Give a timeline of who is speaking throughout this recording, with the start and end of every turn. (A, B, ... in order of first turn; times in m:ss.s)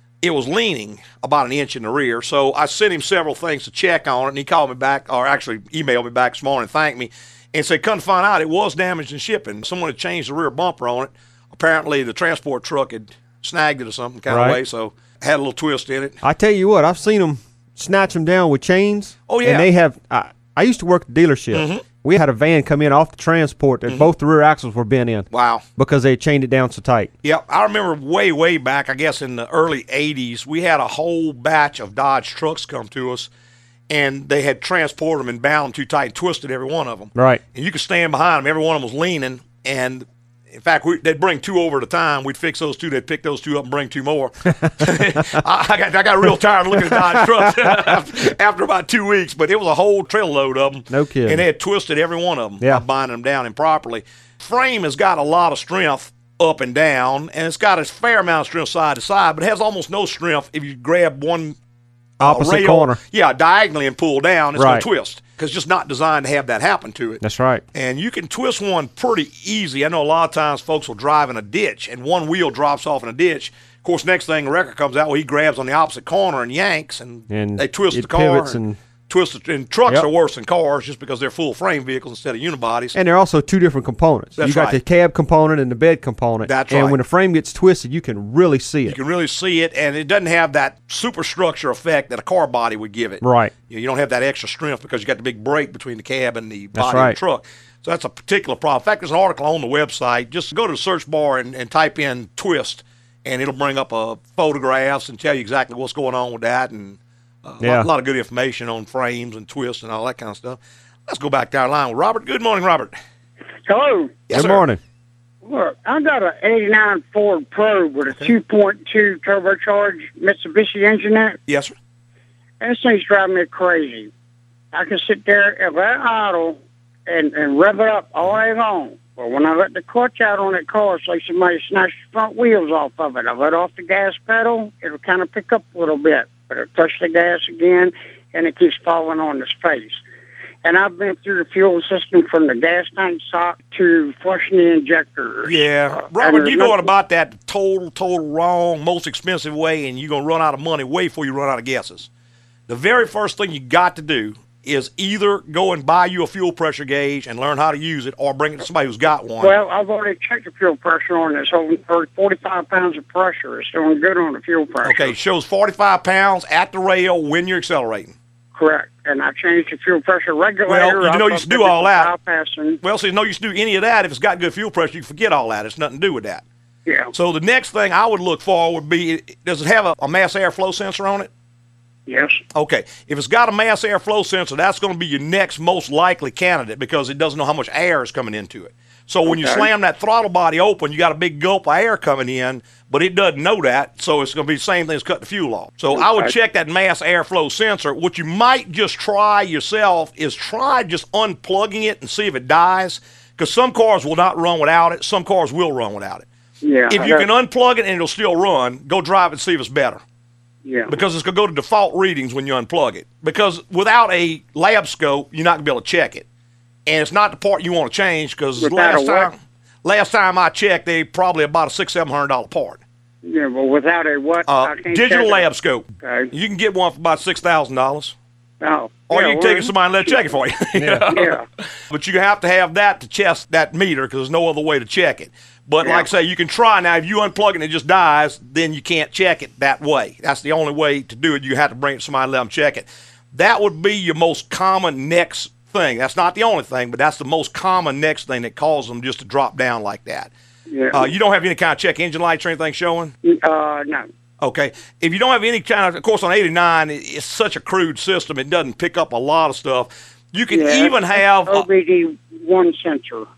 0:00.2-0:16.2 A
0:14.3-0:14.6 B
0:16.2-0:27.1 B
0:19.3-0:19.7 A
0:21.5-0:21.8 A
0:25.3-0:25.6 A
0:27.2-0:33.3 A
0:33.9-1:01.6 A
0:37.2-0:37.4 B
0:46.7-0:48.0 B
0:50.9-0:51.4 B
1:02.2-1:07.2 A
1:02.2-1:03.0 B
1:04.6-1:04.9 B
1:07.2-1:07.6 B
1:07.7-1:23.0 A
1:17.3-1:18.8 B
1:23.0-1:29.0 B
1:24.4-1:24.8 A
1:26.5-1:27.0 A
1:28.9-1:52.9 A
1:33.2-1:33.5 B
1:36.8-1:37.2 B
1:47.6-1:47.9 B
1:53.7-1:54.2 C
1:54.3-1:54.6 A
1:54.3-1:54.8 B
1:55.4-2:01.4 C
2:01.5-2:01.7 A
2:02.6-2:04.1 C
2:04.7-2:20.0 C
2:20.6-2:26.9 C
2:25.4-2:32.1 A
2:32.7-2:39.5 A
2:39.4-2:45.1 C
2:44.8-2:48.1 A
2:48.5-2:52.8 C
2:50.7-2:52.1 A
2:52.8-2:56.4 A
2:56.9-2:57.1 C
2:57.1-3:01.3 A
3:02.1-3:02.4 C
3:02.5-3:26.3 A
3:09.3-3:09.7 C
3:15.9-3:16.3 C
3:26.6-3:27.3 C
3:26.9-3:30.0 A
3:30.6-3:31.0 C
3:30.9-3:36.2 A
3:36.9-3:42.8 A
3:38.6-3:39.3 C
3:43.2-3:45.5 C
3:44.5-3:48.2 A
3:46.0-3:46.3 C
3:48.6-3:50.3 C
3:49.1-3:51.4 A
3:50.8-3:51.1 B
3:51.1-3:51.4 C
3:51.9-4:10.3 A
3:55.8-3:56.1 C
4:10.7-4:11.1 C
4:10.9-4:13.1 A
4:13.2-4:14.1 C
4:14.4-4:21.7 A
4:20.5-4:23.3 C